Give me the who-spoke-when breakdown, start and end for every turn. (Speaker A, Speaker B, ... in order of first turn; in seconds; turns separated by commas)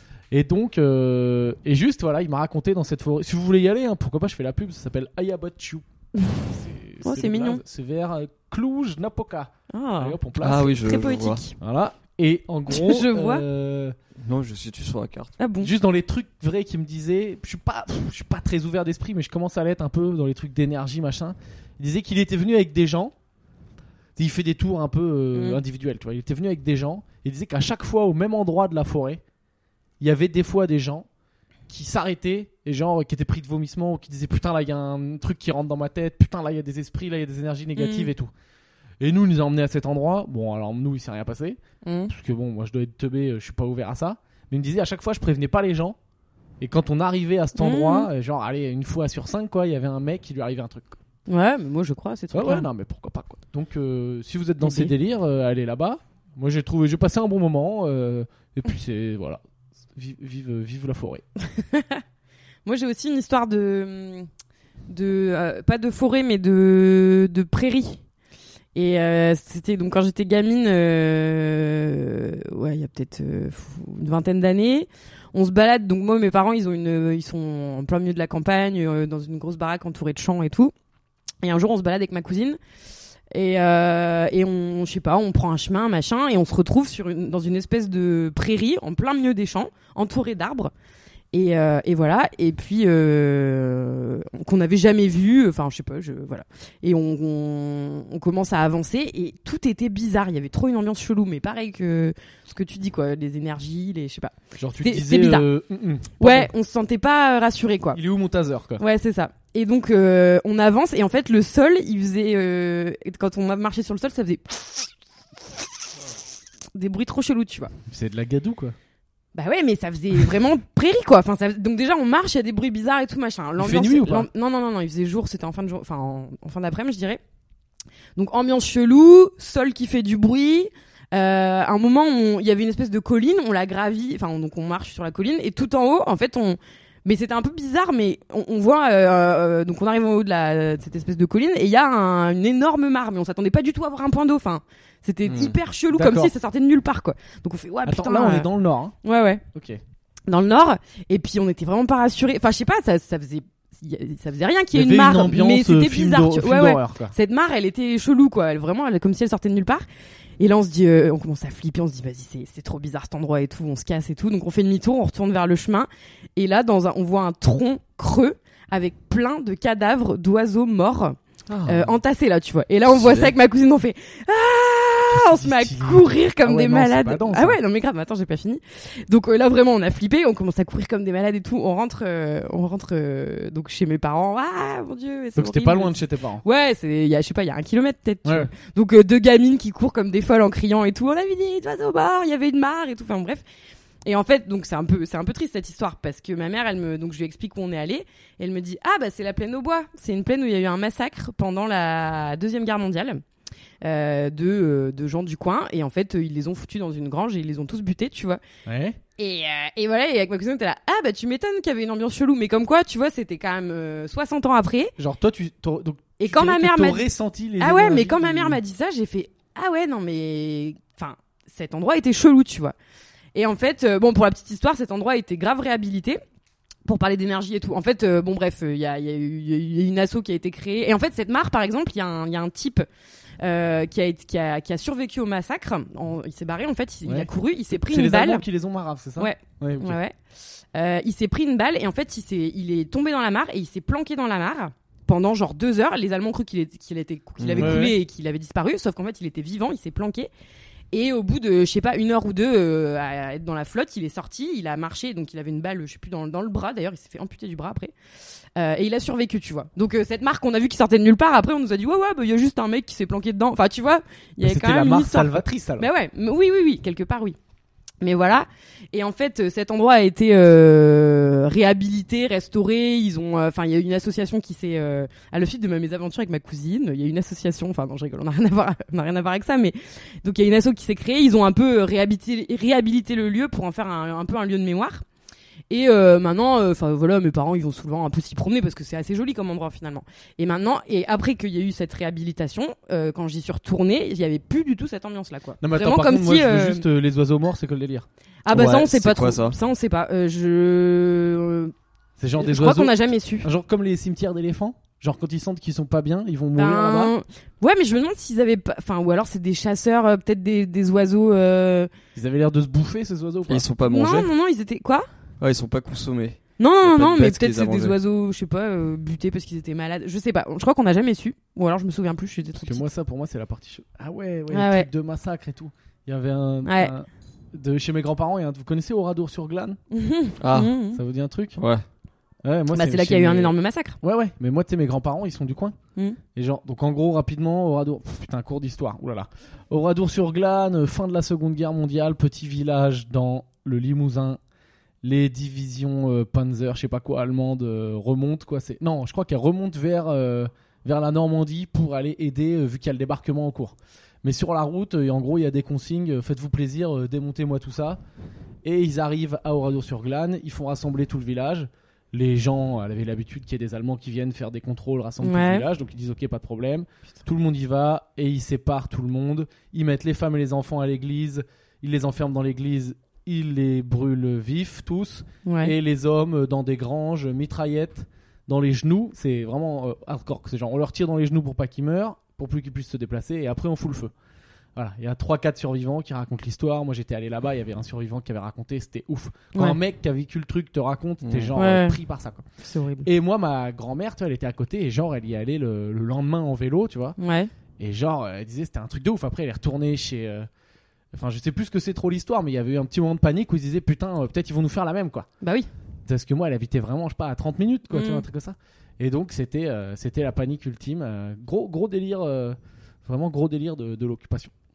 Speaker A: 0.3-5.8, Speaker A: 6.4-10.7, Speaker B: 7.0-7.6, Speaker B: 9.7-11.6, Speaker C: 10.4-11.4, Speaker A: 11.6-13.9, Speaker B: 12.7-13.4, Speaker C: 14.2-15.3, Speaker B: 15.4-15.7, Speaker A: 15.6-23.1, Speaker A: 24.2-29.2, Speaker B: 25.3-25.6, Speaker A: 30.0-31.1, Speaker A: 31.7-38.3, Speaker B: 37.8-38.1, Speaker A: 39.0-41.6, Speaker B: 41.8-42.1, Speaker A: 42.1-46.0, Speaker A: 46.6-51.0, Speaker B: 47.6-48.1, Speaker B: 51.3-52.7, Speaker A: 52.3-59.4, Speaker B: 54.6-54.9, Speaker A: 59.9-61.2, Speaker B: 61.5-62.0, Speaker B: 62.6-64.3, Speaker B: 64.9-68.0, Speaker B: 68.7-80.7, Speaker B: 81.4-82.6, Speaker B: 83.3-90.7, Speaker B: 91.3-105.5, Speaker A: 104.6-106.5, Speaker B: 106.2-108.0, Speaker A: 107.9-108.8, Speaker B: 108.8-114.9, Speaker B: 116.7-117.7, Speaker A: 117.9-118.7, Speaker B: 119.3-127.2, Speaker A: 123.6-124.3, Speaker B: 128.2-148.5, Speaker C: 145.3-145.6, Speaker A: 145.9-146.3, Speaker A: 147.8-148.9, Speaker B: 149.0-149.4, Speaker A: 149.5-149.8, Speaker B: 150.3-159.8, Speaker A: 154.7-157.1, Speaker B: 160.4-193.4, Speaker C: 171.5-171.9, Speaker C: 172.9-173.3, Speaker A: 175.1-177.6, Speaker A: 185.3-186.4, Speaker A: 188.2-188.5, Speaker B: 194.0-203.2, Speaker B: 203.8-208.4, Speaker A: 208.7-209.0, Speaker B: 209.2-214.9, Speaker A: 215.0-218.6, Speaker B: 216.2-217.1, Speaker B: 217.6-222.7, Speaker B: 223.3-226.2, Speaker B: 226.8-232.8, Speaker B: 233.4-238.4, Speaker A: 237.0-240.0, Speaker B: 239.2-240.1, Speaker B: 240.7-250.3, Speaker C: 247.4-247.9, Speaker A: 247.6-247.9, Speaker B: 250.9-257.9, Speaker B: 258.6-267.4, Speaker A: 264.4-265.9, Speaker B: 268.0-285.0, Speaker B: 285.7-296.8, Speaker A: 295.6-298.1, Speaker B: 298.4-301.7, Speaker C: 298.5-299.6, Speaker A: 302.2-307.1, Speaker B: 302.4-303.5, Speaker B: 306.6-311.9, Speaker A: 312.1-313.7, Speaker C: 313.5-314.3, Speaker B: 313.9-315.1, Speaker C: 315.4-317.9, Speaker B: 316.6-322.8, Speaker A: 322.6-329.8, Speaker B: 324.5-324.9, Speaker B: 326.6-326.9, Speaker B: 329.9-331.0, Speaker C: 330.4-330.7, Speaker A: 330.9-331.6, Speaker C: 331.6-331.8, Speaker A: 332.4-335.8, Speaker B: 332.7-334.0, Speaker A: 336.3-344.4, Speaker A: 345.0-358.0, Speaker A: 358.6-384.1, Speaker B: 365.2-365.6, Speaker B: 375.4-375.7, Speaker A: 384.8-392.4, Speaker C: 391.2-391.5, Speaker B: 391.6-392.0, Speaker B: 392.6-393.1, Speaker A: 393.0-397.1, Speaker B: 397.2-397.5, Speaker A: 397.8-400.5, Speaker A: 401.1-405.3, Speaker B: 405.4-405.7, Speaker A: 406.1-414.5, Speaker B: 407.9-408.2